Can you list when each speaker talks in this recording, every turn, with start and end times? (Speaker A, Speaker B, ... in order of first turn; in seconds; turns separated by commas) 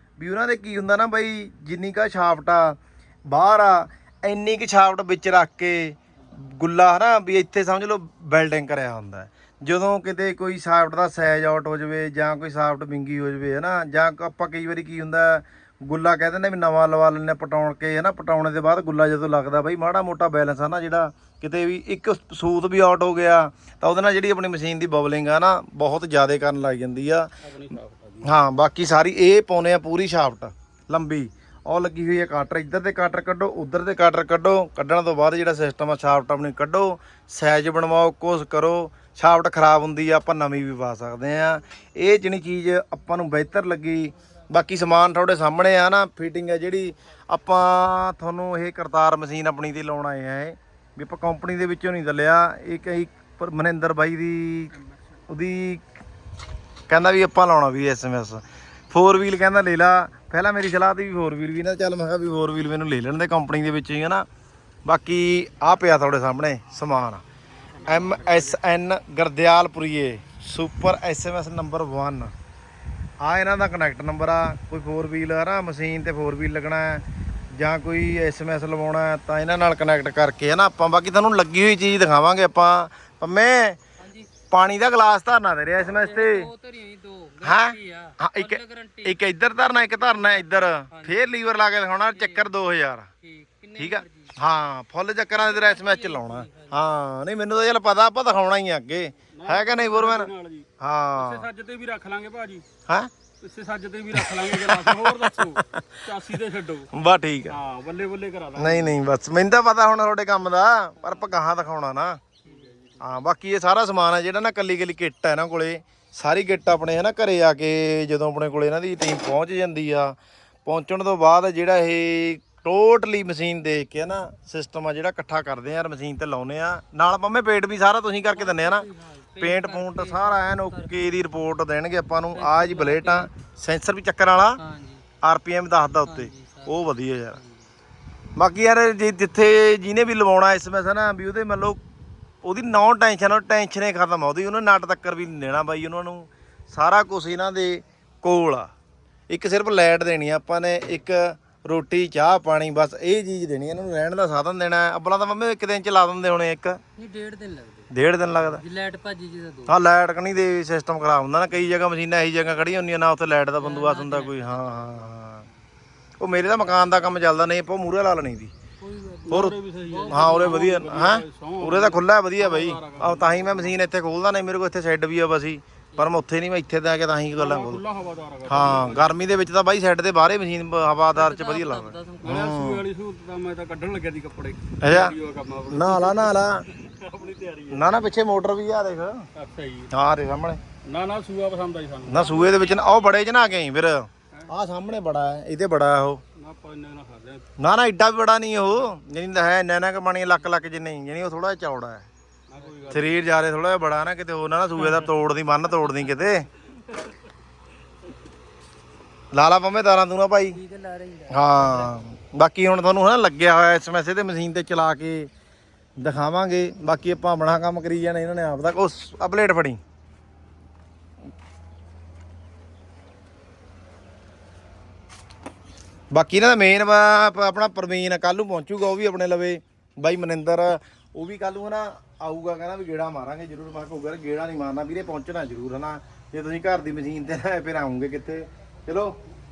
Speaker A: 0.2-27.3, Speaker B: 27.4-28.3, Speaker A: 28.2-54.7, Speaker B: 54.7-55.0, Speaker A: 55.3-55.8, Speaker A: 56.9-64.2, Speaker A: 64.9-67.2, Speaker B: 67.6-68.6, Speaker A: 67.8-72.3, Speaker A: 73.2-77.0, Speaker A: 77.6-83.8, Speaker C: 84.0-84.3, Speaker A: 84.5-86.5, Speaker C: 86.0-89.2, Speaker A: 87.4-93.1, Speaker C: 90.0-91.2, Speaker C: 92.2-92.5, Speaker C: 93.2-94.4, Speaker A: 93.8-101.5, Speaker C: 95.3-96.8, Speaker B: 99.3-100.7, Speaker B: 101.2-102.6, Speaker B: 103.4-106.9, Speaker A: 104.2-106.0, Speaker A: 106.9-107.6, Speaker B: 107.5-109.0, Speaker A: 108.6-112.2, Speaker B: 112.5-113.0, Speaker A: 113.0-134.6, Speaker C: 128.3-131.2, Speaker C: 132.3-133.3, Speaker C: 134.6-135.0, Speaker A: 135.2-137.4, Speaker C: 136.1-136.8, Speaker C: 137.3-137.6, Speaker A: 138.4-141.8, Speaker A: 142.4-148.7, Speaker A: 149.3-156.8, Speaker C: 157.0-157.9, Speaker A: 157.9-158.6, Speaker C: 158.5-159.7, Speaker A: 159.7-165.4, Speaker C: 163.6-165.1, Speaker A: 166.2-168.5, Speaker C: 168.8-169.2, Speaker B: 169.2-173.8, Speaker A: 169.3-169.6, Speaker C: 169.9-170.6, Speaker A: 170.1-177.8, Speaker B: 177.3-179.2, Speaker A: 178.5-182.8, Speaker C: 181.1-182.4, Speaker B: 182.2-188.0, Speaker A: 184.8-185.1, Speaker A: 185.7-186.7, Speaker A: 187.7-189.3, Speaker B: 189.3-189.9, Speaker A: 189.9-190.6, Speaker B: 190.8-192.9, Speaker A: 192.1-196.2, Speaker B: 196.4-197.4, Speaker A: 197.6-202.1, Speaker B: 202.5-203.1, Speaker C: 202.6-203.1, Speaker A: 202.9-206.5, Speaker A: 209.3-210.6, Speaker C: 210.5-212.0, Speaker A: 211.3-215.3, Speaker A: 216.0-219.8, Speaker A: 226.1-239.2